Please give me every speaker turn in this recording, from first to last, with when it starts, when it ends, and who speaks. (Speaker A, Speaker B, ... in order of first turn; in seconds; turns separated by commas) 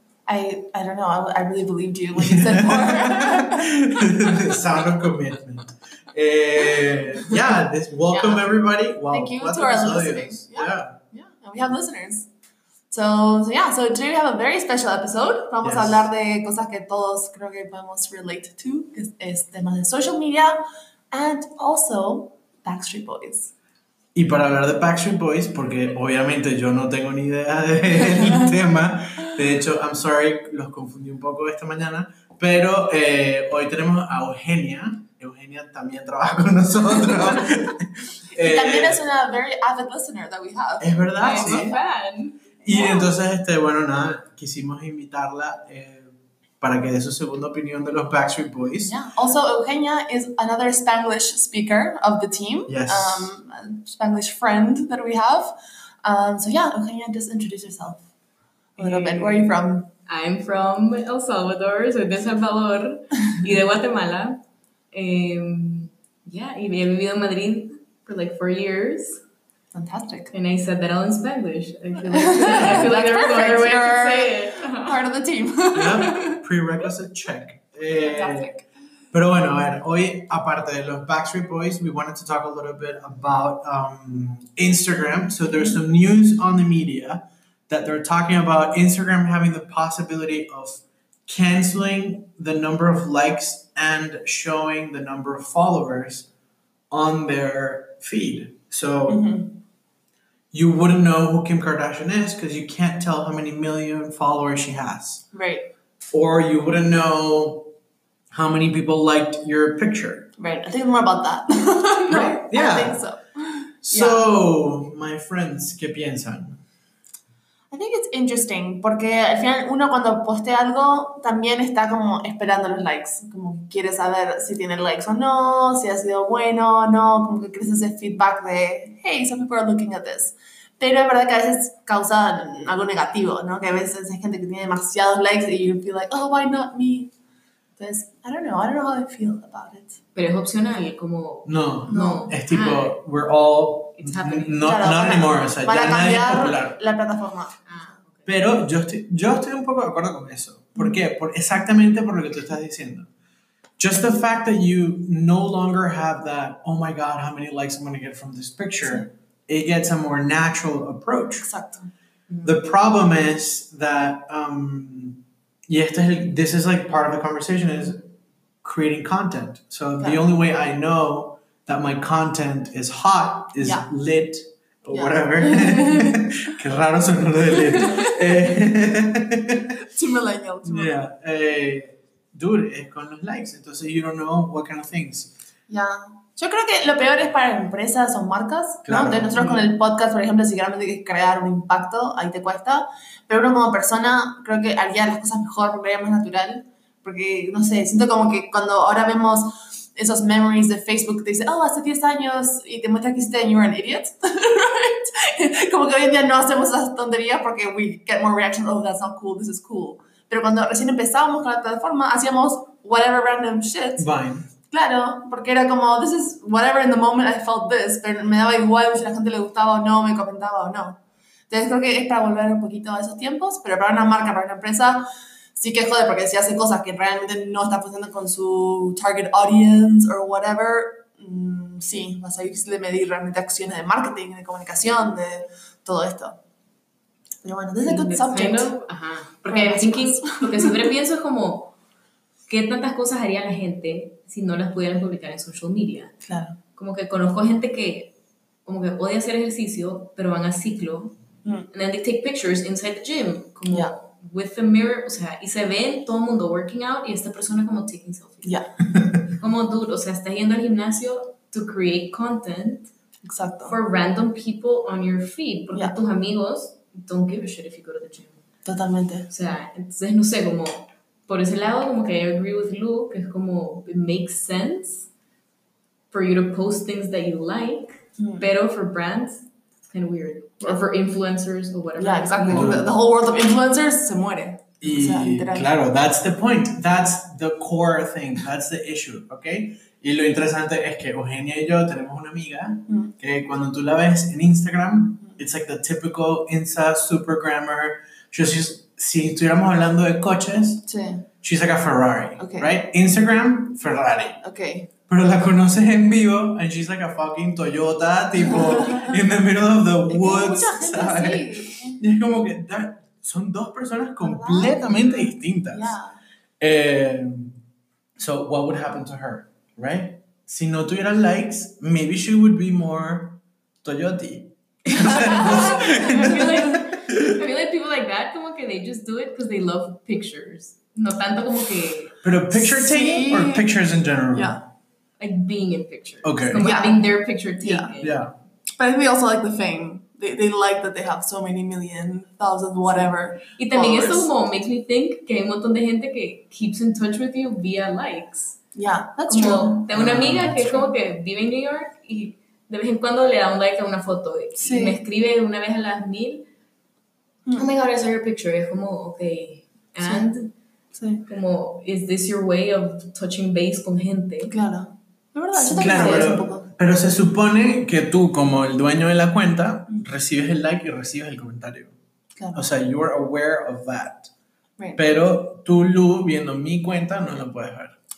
Speaker A: 0.3-4.6, Speaker B: 2.2-11.0, Speaker A: 8.1-8.5, Speaker A: 9.1-12.3, Speaker A: 12.9-23.5, Speaker B: 15.6-16.1, Speaker B: 24.1-39.0, Speaker A: 38.3-41.8, Speaker B: 40.8-41.8, Speaker C: 41.2-42.5, Speaker B: 42.6-49.0, Speaker A: 42.7-43.1, Speaker A: 48.8-58.0, Speaker B: 52.7-53.4, Speaker C: 58.8-59.5, Speaker A: 58.8-59.9, Speaker C: 60.1-64.4, Speaker C: 64.9-69.2, Speaker A: 69.7-70.3, Speaker C: 70.3-75.0, Speaker A: 72.1-76.4, Speaker B: 75.8-78.5, Speaker A: 78.0-78.7, Speaker B: 79.1-96.3, Speaker A: 85.5-85.8, Speaker B: 96.9-99.3, Speaker A: 99.1-99.6, Speaker B: 100.5-105.3, Speaker A: 105.3-105.7, Speaker B: 106.1-107.7, Speaker B: 108.3-110.3, Speaker A: 110.4-114.2, Speaker B: 112.1-113.0, Speaker B: 113.8-116.6, Speaker A: 117.7-137.1, Speaker A: 137.8-140.0, Speaker C: 140.2-143.0, Speaker B: 141.5-146.8, Speaker A: 141.9-142.3, Speaker C: 144.0-144.8, Speaker A: 144.6-147.6, Speaker C: 147.7-148.3, Speaker B: 148.3-153.1, Speaker B: 153.8-161.5, Speaker A: 161.4-161.9, Speaker B: 162.4-168.1, Speaker B: 168.6-179.8, Speaker A: 173.6-173.9, Speaker A: 174.9-176.2, Speaker A: 177.5-178.2, Speaker A: 179.8-181.0, Speaker B: 180.7-185.3, Speaker A: 185.7-214.1, Speaker B: 188.8-189.7, Speaker B: 214.0-214.5, Speaker A: 214.7-236.4, Speaker A: 237.4-238.7, Speaker C: 237.8-241.7, Speaker A: 239.5-240.8, Speaker C: 242.5-246.1, Speaker A: 246.2-246.6, Speaker C: 246.8-248.1, Speaker C: 248.7-251.2, Speaker C: 251.7-262.9, Speaker A: 258.4-258.7, Speaker A: 263.2-263.8, Speaker C: 263.7-268.4, Speaker A: 268.6-269.3, Speaker C: 269.3-275.1, Speaker C: 276.1-282.8, Speaker A: 278.2-278.5, Speaker A: 282.0-285.7, Speaker B: 282.5-282.9, Speaker B: 284.8-300.9, Speaker A: 300.9-301.3, Speaker B: 301.4-304.4, Speaker A: 302.4-302.7, Speaker A: 304.4-304.9, Speaker B: 305.1-316.0, Speaker A: 308.4-309.2, Speaker A: 310.1-312.0, Speaker A: 314.2-316.2, Speaker B: 316.6-317.6, Speaker B: 318.2-327.4, Speaker A: 324.9-326.5, Speaker C: 325.1-332.2, Speaker B: 332.2-334.6, Speaker A: 332.5-333.7, Speaker A: 334.3-334.6, Speaker C: 335.2-338.3, Speaker B: 336.2-336.8, Speaker A: 336.6-337.0, Speaker A: 337.6-337.9, Speaker B: 338.0-338.4, Speaker A: 338.8-344.3, Speaker C: 342.9-348.6, Speaker A: 348.8-349.9, Speaker C: 349.3-356.4, Speaker B: 349.9-350.9, Speaker A: 354.6-355.0, Speaker C: 357.6-360.5, Speaker A: 360.0-360.3, Speaker A: 360.9-361.2, Speaker C: 361.3-364.5, Speaker A: 364.5-366.7, Speaker B: 365.6-371.9, Speaker C: 365.9-366.3, Speaker A: 372.4-372.6, Speaker B: 372.6-374.3, Speaker B: 375.0-377.9